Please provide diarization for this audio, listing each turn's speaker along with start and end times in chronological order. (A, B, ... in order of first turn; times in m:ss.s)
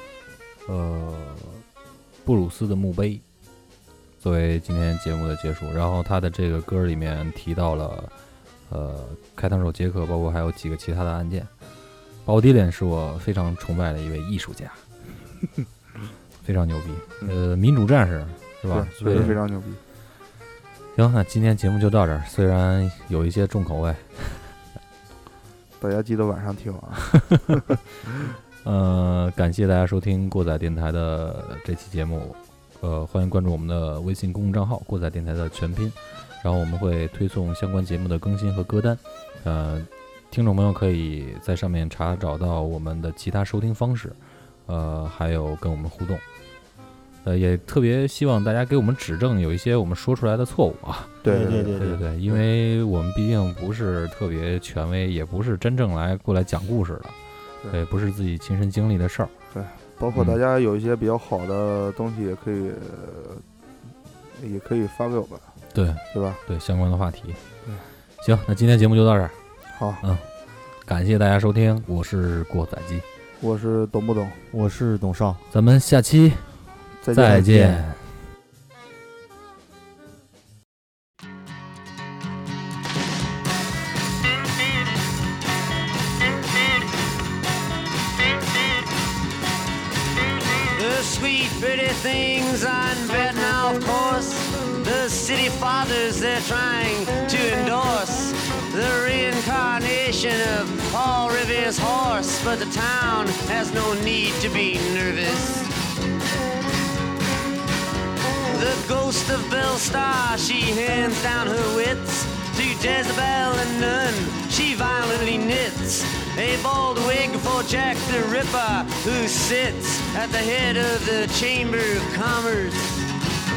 0:00.7-0:01.6 A
0:02.2-0:03.2 A
0:04.2-0:08.1 A
0:08.7-0:11.5 A
0:12.2-0:14.8 A
0:16.4-0:19.4 A
0:18.7-0:19.8 B
0:21.0-0:24.6 A
0:25.8-0:27.6 B
0:28.6-0:46.2 A
0:47.2-0:51.2 A
0:51.2-0:52.4 B
0:51.2-0:52.0 C
0:51.8-0:57.2 A
0:57.7-0:59.3 A
0:59.5-1:03.4 B
1:00.1-1:00.4 A
1:04.3-1:05.5 B
1:05.7-1:07.4 A
1:06.1-1:06.4 B
1:08.2-1:09.4 A
1:09.7-1:10.0 B
1:10.0-1:10.3 A
1:10.8-1:13.0 A
1:13.4-1:14.4 B
1:14.5-1:15.4 C
1:15.5-1:16.6 A
1:17.0-1:17.5 B
1:17.1-1:18.1 A
1:17.3-1:17.8 C
1:30.7-1:45.7 D
1:48.5-2:03.0 D